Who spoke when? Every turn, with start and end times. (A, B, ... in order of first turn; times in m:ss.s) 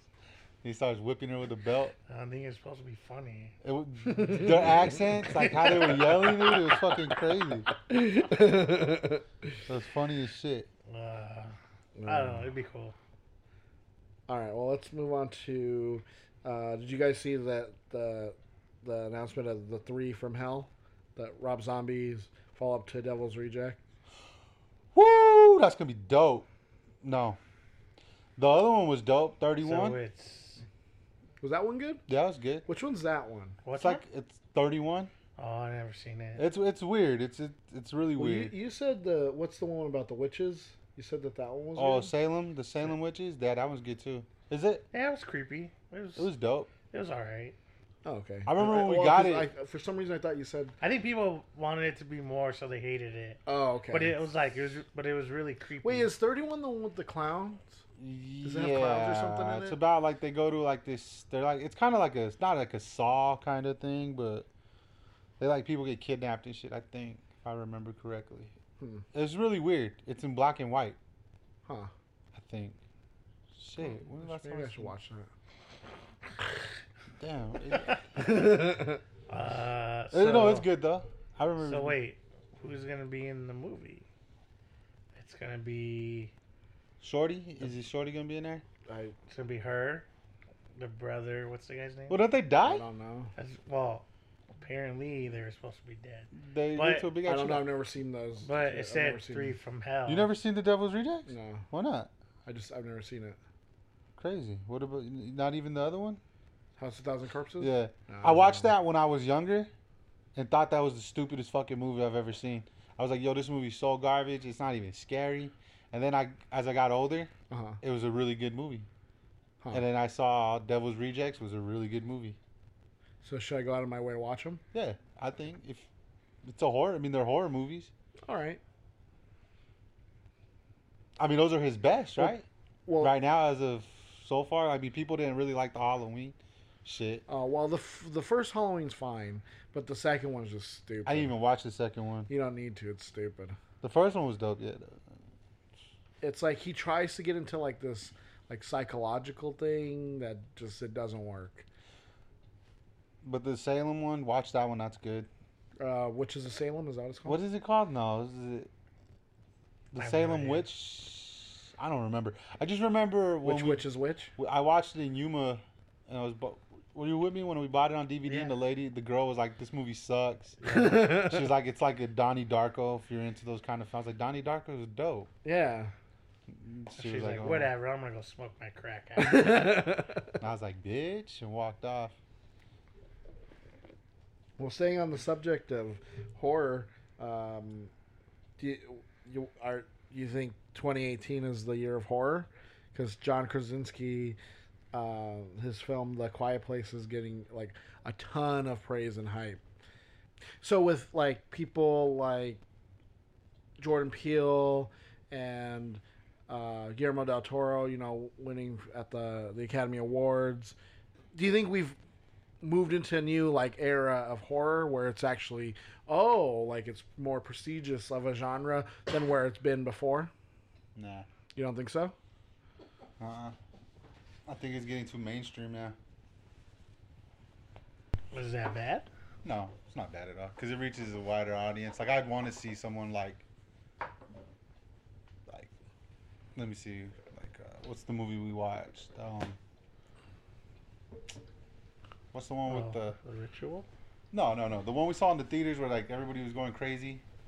0:00.6-0:02.0 A
0:02.1-0:03.6 B
0:03.6-0:07.7 A
0:04.1-0:05.0 C
0:05.4-0:06.8 B
0:07.8-0:09.6 C
0:09.7-0:10.7 A
0:10.9-0:13.0 B
0:12.0-0:12.5 C
0:14.3-0:23.8 C
0:24.9-0:26.5 A
0:27.0-0:27.4 A
0:28.4-0:30.0 A
0:29.6-0:30.6 B
0:31.4-0:32.0 C
0:32.1-0:32.7 A
0:32.7-0:33.6 C
0:33.6-0:34.0 B
0:33.8-0:35.1 A
0:35.4-0:36.4 B
0:36.4-0:38.5 A
0:38.2-0:42.1 C
0:41.8-0:44.9 A
0:44.9-0:46.3 B
0:46.2-0:46.7 A
0:46.9-0:47.6 B
0:48.0-0:50.8 C
0:48.5-0:49.5 A
0:50.8-0:56.1 B
0:53.5-0:54.2 C
0:55.8-0:57.8 C
0:58.0-1:04.5 A
0:58.4-0:59.8 C
1:05.4-1:08.5 A
1:08.8-1:09.0 C
1:09.1-1:11.0 A
1:11.7-1:11.9 C
1:12.3-1:12.8 A
1:13.5-1:14.9 A
1:14.1-1:15.3 C
1:17.2-1:18.3 A
1:18.2-1:19.0 C
1:19.3-1:20.7 B
1:20.1-1:22.0 A
1:21.6-1:24.1 B
1:25.2-1:26.3 B
1:27.0-1:28.6 A
1:28.9-1:29.2 C
1:29.3-1:30.1 B
1:30.8-1:32.2 B
1:32.1-1:32.8 A
1:32.6-1:33.3 C
1:33.4-1:34.1 B
1:34.6-1:37.1 B
1:36.3-1:37.7 A
1:37.2-1:39.6 C
1:38.4-1:40.3 B
1:40.1-1:42.1 A
1:41.3-1:41.7 C
1:42.5-1:43.4 C
1:44.2-1:46.2 A
1:46.8-1:48.7 C
1:47.6-1:49.7 A
1:50.4-1:58.9 A
1:57.5-1:57.8 C
1:59.7-2:02.4 A
2:03.2-2:04.6 C
2:04.7-2:05.9 A
2:06.4-2:07.9 A
2:08.3-2:08.6 C
2:11.2-2:12.4 A
2:12.2-2:13.1 C
2:13.0-2:17.2 A
2:17.3-2:21.3 C
2:21.1-2:22.3 A
2:22.3-2:23.6 C
2:23.8-2:25.0 A
2:26.2-2:31.7 C
2:33.2-2:35.3 A
2:35.8-2:37.4 C
2:37.2-2:38.7 A
2:39.9-2:43.8 A
2:40.0-2:40.7 B
2:43.4-2:44.3 C
2:44.4-2:55.3 A
2:50.6-2:51.1 B
2:50.7-2:51.4 C
2:55.4-2:55.9 C
2:56.5-2:57.7 A
2:57.0-2:59.9 B
2:59.2-3:00.3 C
3:00.4-3:02.1 A
3:04.6-3:07.9 C
3:08.6-3:14.4 C
3:14.9-3:19.6 C
3:20.6-3:22.6 C
3:23.8-3:30.8 C
3:31.3-3:32.0 C
3:32.6-3:40.3 C
3:41.0-3:41.3 A
3:41.6-3:42.2 C
3:43.2-3:43.6 A
3:44.5-3:46.0 A
3:48.3-3:49.1 B
3:49.4-3:53.4 A
3:56.6-3:59.6 A
4:02.3-4:03.2 A
4:02.7-4:03.9 B
4:04.3-4:07.2 A